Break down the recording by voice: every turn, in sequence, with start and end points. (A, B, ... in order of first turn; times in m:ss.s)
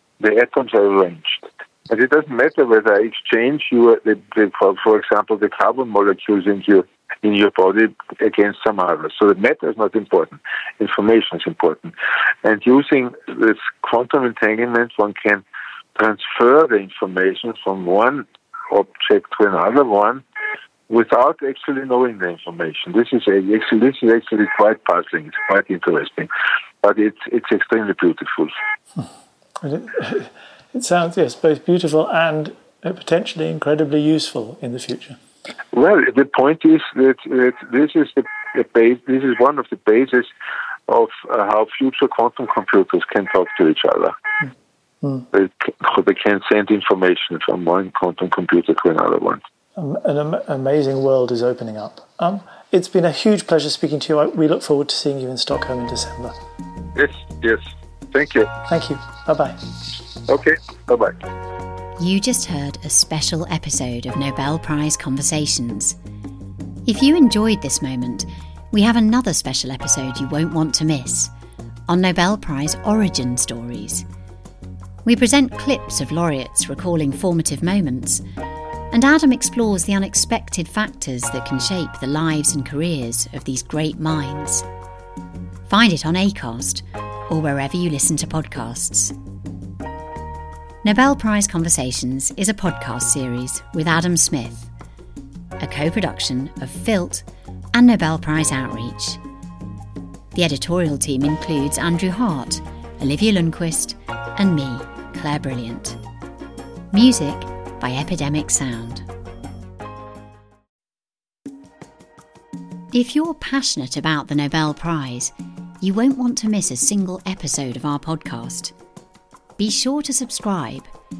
0:00.2-0:15.4 A
0:16.0-0:20.2 A
0:20.9-0:26.3 A
0:26.8-0:28.5 A
0:29.6-0:35.2 B
0:35.7-0:40.3 A
0:40.9-0:44.1 A
0:45.3-0:49.4 A
0:49.8-0:56.4 B
0:56.9-0:57.6 A
0:58.1-0:58.5 A
0:58.7-0:59.7 B
1:00.3-1:01.2 A
1:02.0-1:06.0 C
1:06.8-1:11.3 C
1:11.9-1:14.0 C
1:15.0-1:18.2 C
1:18.9-1:24.6 C
1:25.7-1:29.1 C
1:30.8-1:34.7 C
1:35.6-1:39.2 C
1:40.3-1:46.0 C
1:46.9-1:49.0 C
1:52.9-1:58.7 C
1:59.6-2:00.9 C